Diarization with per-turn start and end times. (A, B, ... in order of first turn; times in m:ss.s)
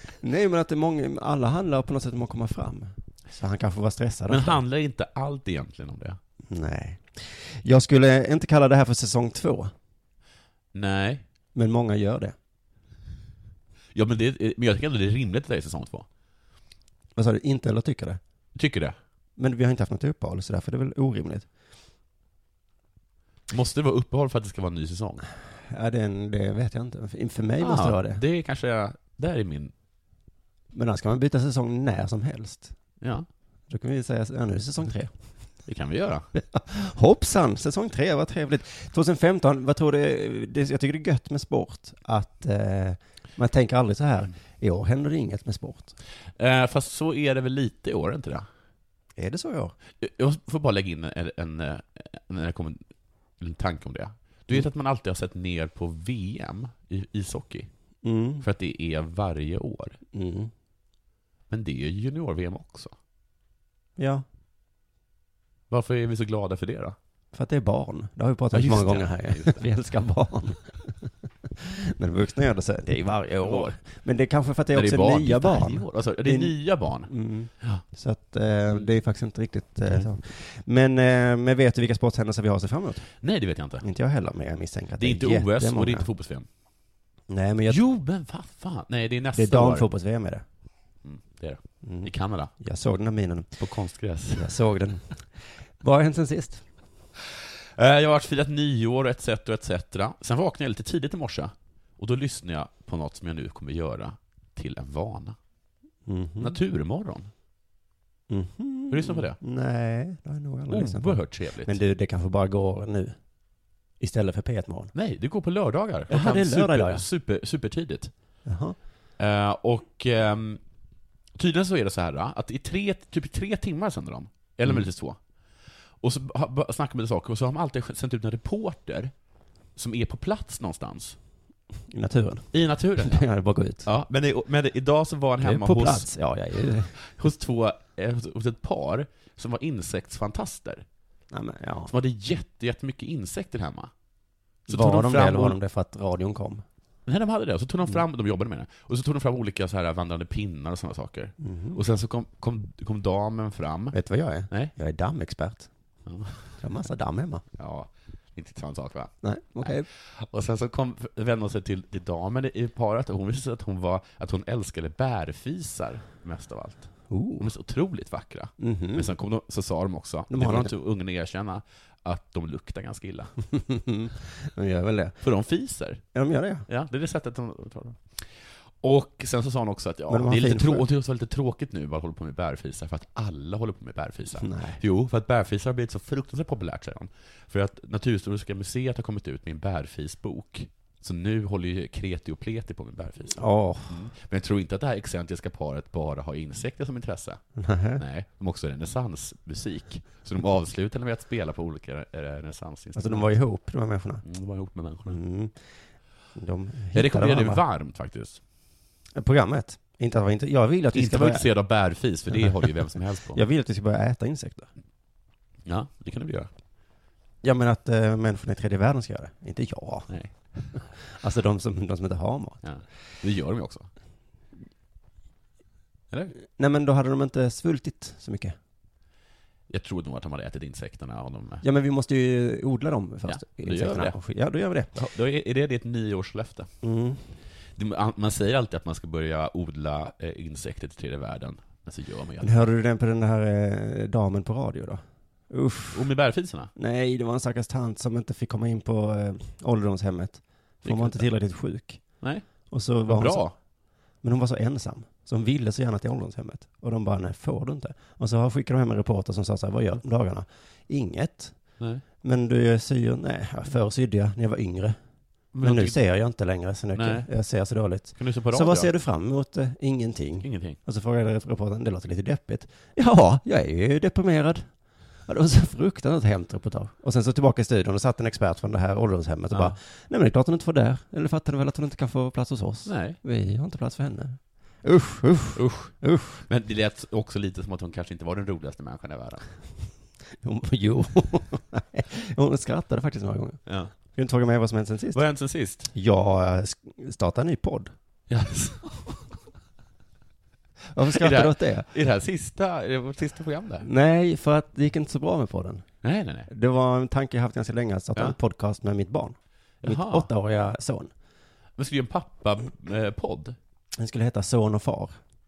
0:00.2-0:04.6 A
0:04.3-0:06.2 B
0:06.5-0:09.7 A
0:10.7-0:11.2 B
0:11.5-0:12.4 A
0:14.0-0:16.1 B
0:17.2-0:18.2 A
0:18.6-0:19.0 B
0:19.4-0:21.5 A
0:23.5-0:25.3 B
0:25.7-0:28.2 A
0:27.6-0:29.7 B
0:30.7-0:32.7 A
0:33.0-0:33.3 B
0:33.7-0:35.1 A
0:35.7-0:36.3 B
0:36.3-0:45.9 A
0:46.4-0:48.5 B
0:49.2-0:49.7 A
0:50.0-0:52.9 B
0:53.4-0:57.7 B
0:58.0-0:58.4 A
0:58.4-1:00.0 B
1:00.1-1:00.5 A
1:01.5-1:02.9 B
1:04.0-1:04.2 A
1:05.7-1:07.0 B
1:07.3-1:23.1 A
1:08.5-1:09.6 B
1:13.4-1:13.8 B
1:14.7-1:17.8 B
1:23.2-1:23.8 B
1:23.8-1:26.1 A
1:25.0-1:26.5 B
1:27.3-1:27.8 A
1:27.7-1:29.9 B
1:29.3-1:30.4 A
1:31.0-1:32.5 B
1:31.8-1:33.5 A
1:33.6-1:34.5 B
1:34.4-1:35.2 A
1:35.8-1:36.7 A
1:37.8-1:45.4 B
1:46.1-1:46.6 A
1:46.4-1:47.3 B
1:48.3-1:53.2 A
1:48.9-1:49.4 B
1:50.7-1:51.8 B
1:54.0-1:54.9 A
1:54.9-1:58.1 B
1:56.1-1:57.0 A
1:58.4-1:58.8 A
1:59.2-2:00.6 B
2:01.4-2:05.2 B
2:06.0-2:09.1 B
2:09.8-2:11.2 B
2:11.9-2:13.9 A
2:12.5-2:13.2 B
2:13.8-2:16.1 B
2:15.4-2:16.9 A
2:16.9-2:20.8 B
2:21.3-2:21.9 A
2:21.9-2:23.9 B
2:24.7-2:26.6 A
2:24.7-2:25.6 B
2:27.1-2:34.0 B
2:31.4-2:31.8 A
2:33.9-2:35.7 A
2:36.1-2:36.4 B
2:36.6-2:37.4 A
2:37.6-2:39.1 B
2:39.2-2:39.9 A
2:39.6-2:53.3 B
2:47.1-2:47.5 A
2:48.6-2:49.1 A
2:50.3-2:50.7 A
2:53.5-2:55.2 A
2:55.2-2:56.0 B
2:56.1-2:56.7 A
2:56.7-2:58.3 B
2:58.8-3:17.4 B
3:00.1-3:00.8 A
3:04.4-3:04.8 A
3:13.3-3:14.0 A
3:17.6-3:18.0 A
3:18.0-3:23.3 B
3:23.0-3:24.2 A
3:24.2-3:25.2 B
3:25.1-3:25.6 A
3:26.4-3:27.6 A
3:26.9-3:28.4 B
3:29.2-3:31.5 A
3:30.9-3:33.4 B
3:32.3-3:32.7 A
3:33.3-3:34.7 A
3:35.7-3:36.5 B
3:37.4-3:40.1 A
3:40.1-3:40.4 B
3:41.0-3:42.6 A
3:42.6-3:43.9 B
3:46.4-3:48.6 A
3:49.7-3:51.6 B
3:51.6-3:55.0 A
3:53.3-3:54.2 B
3:55.0-3:56.7 B
3:56.8-3:57.2 A
3:57.8-4:02.5 B
4:02.4-4:06.1 A
4:05.9-4:06.7 B
4:06.8-4:13.5 A
4:10.8-4:11.3 B
4:12.2-4:12.5 B
4:13.0-4:13.6 B
4:14.2-4:21.6 A
4:22.2-4:25.0 A
4:25.5-4:26.0 B
4:25.6-4:34.7 A
4:27.0-4:27.3 B
4:28.2-4:28.9 B
4:30.4-4:30.8 B
4:35.3-4:46.4 A
4:42.9-4:43.2 B
4:45.6-4:45.9 B
4:46.5-4:49.4 B
4:50.4-4:55.2 A
4:55.1-4:55.9 B
4:55.9-4:57.9 A
4:58.3-4:59.3 B
5:00.9-5:01.9 A
5:01.1-5:03.9 B
5:03.8-5:05.9 A
5:06.0-5:06.5 B
5:06.5-5:11.1 A
5:09.8-5:10.3 B
5:11.8-5:13.6 B
5:14.0-5:15.2 A